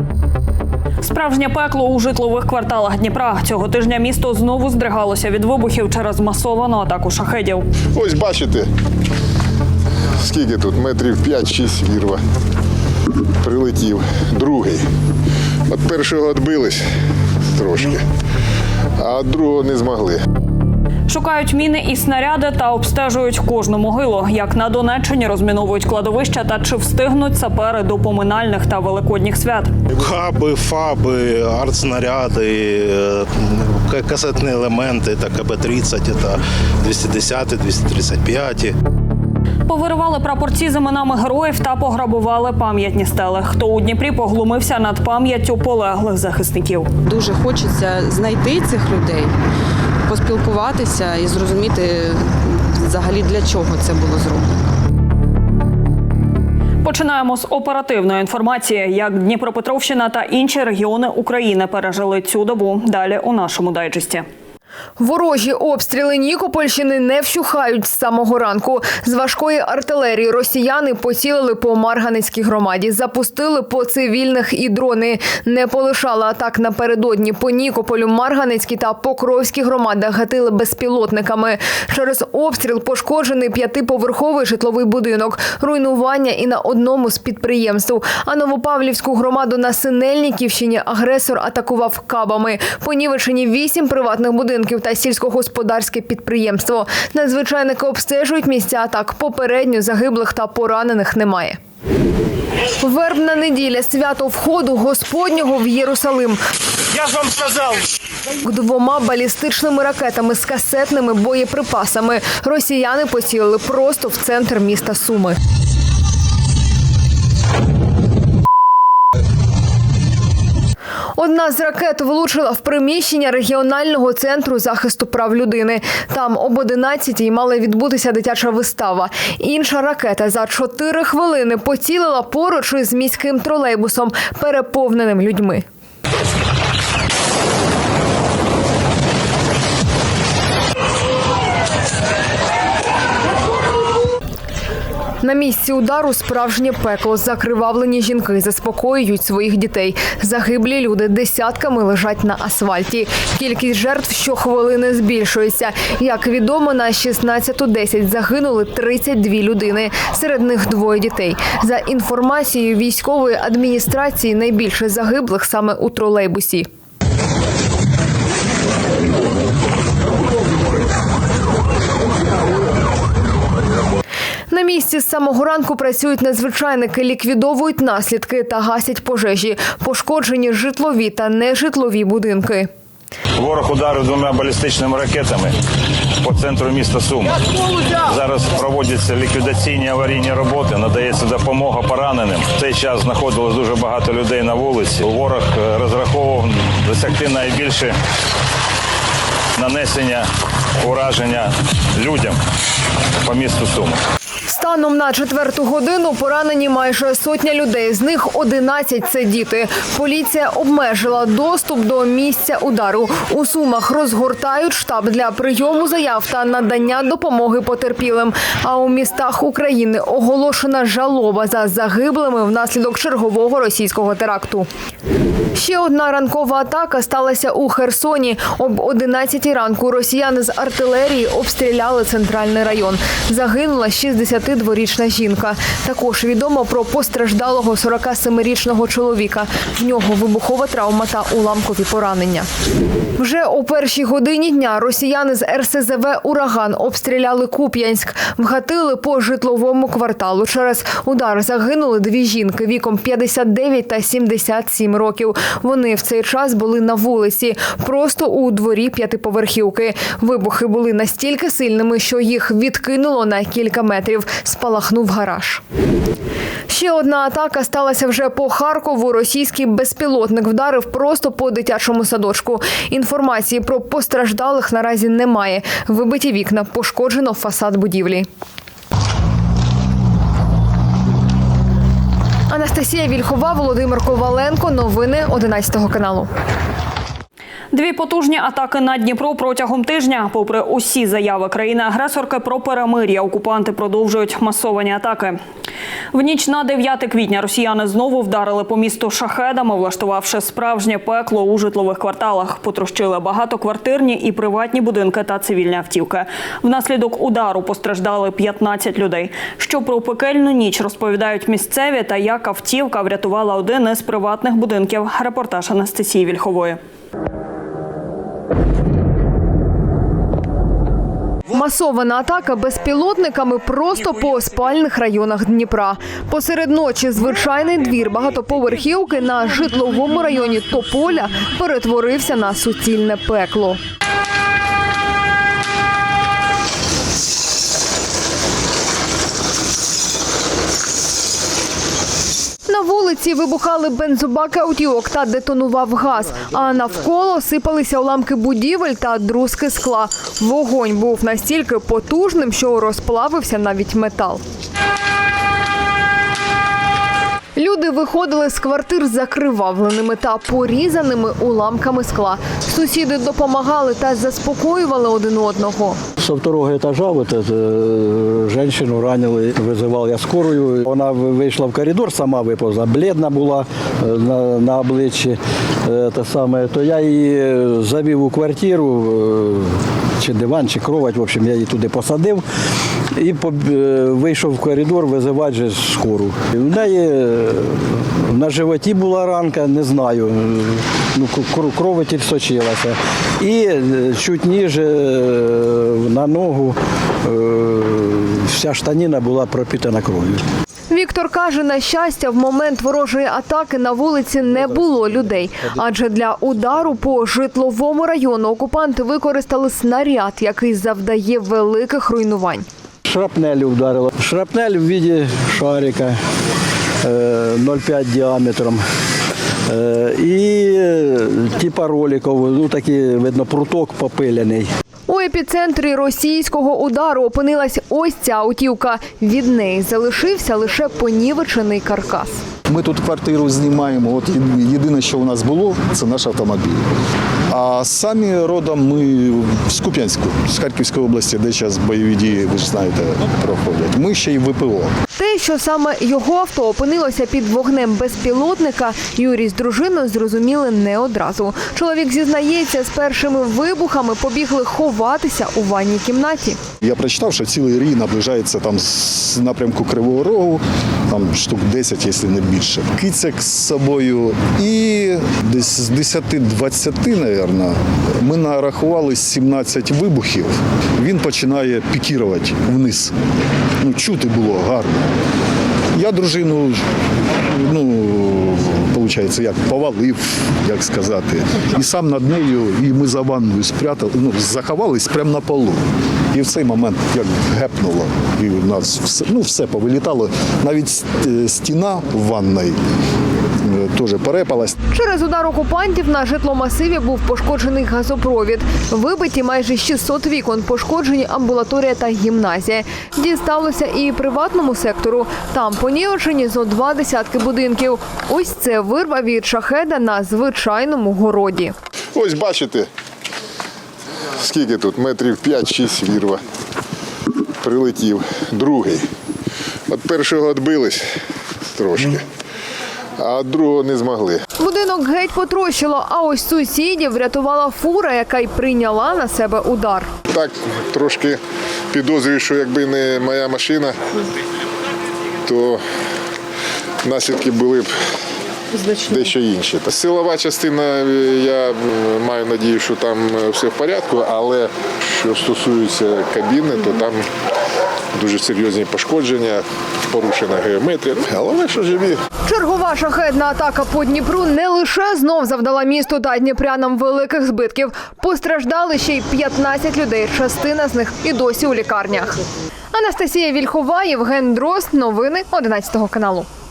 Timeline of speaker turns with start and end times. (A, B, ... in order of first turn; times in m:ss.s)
0:01.0-0:07.7 A
0:07.9-0:08.7 B
0:10.2-0:12.2 B
0:13.4-0:14.8 B
0:15.7-0:16.8 B
0:17.6-0:18.0 B
0:19.0-0:20.2 B
0:21.1-0:29.7 A
0:30.0-0:38.8 C
0:39.7-0:46.9 A
0:47.0-0:49.3 D
0:50.1-0:54.5 D
0:56.8-1:04.2 A
1:05.0-1:41.6 E
1:42.8-1:46.4 E
1:48.4-1:55.4 E
2:01.2-2:15.6 E
2:25.2-2:46.7 E
2:54.5-3:02.7 E
3:03.4-3:05.5 F
3:06.2-3:07.2 F
3:08.1-3:17.9 F
3:19.6-3:20.2 F
3:20.8-3:21.4 F
3:22.0-3:22.3 F
3:23.2-3:23.9 F
3:24.5-3:44.7 E
3:45.6-4:02.5 E
4:03.2-4:25.6 E
4:26.7-4:38.3 E
4:42.5-4:46.3 E
4:47.7-4:55.4 A
4:56.1-5:16.8 A
5:21.5-5:33.8 E
5:42.7-5:54.4 E
5:57.6-6:06.0 E
6:06.2-6:22.4 G
6:23.2-6:40.4 G
6:40.9-6:52.7 E
6:53.1-6:56.2 G
6:57.0-6:58.8 G
6:59.7-7:04.7 G
7:05.1-7:12.4 E
7:12.7-7:16.9 H
7:17.5-7:24.9 H
7:25.2-7:36.6 E
7:36.8-7:53.2 H
7:53.8-7:55.1 H
7:55.9-7:56.9 H
7:57.5-8:12.8 H
8:13.6-8:14.8 H
8:14.9-8:31.8 E
8:32.2-8:32.9 B
8:34.4-8:36.4 B
8:37.6-8:39.0 B
8:39.9-8:41.1 B
8:41.7-8:42.2 B
8:43.2-8:44.4 B
8:44.6-8:50.2 E
8:50.3-8:51.4 B
8:51.9-8:53.9 B
8:55.4-8:55.8 B
8:57.0-8:57.9 B
8:58.9-9:07.2 B
9:08.2-9:12.2 B
9:12.5-9:22.4 E
9:22.9-9:26.5 E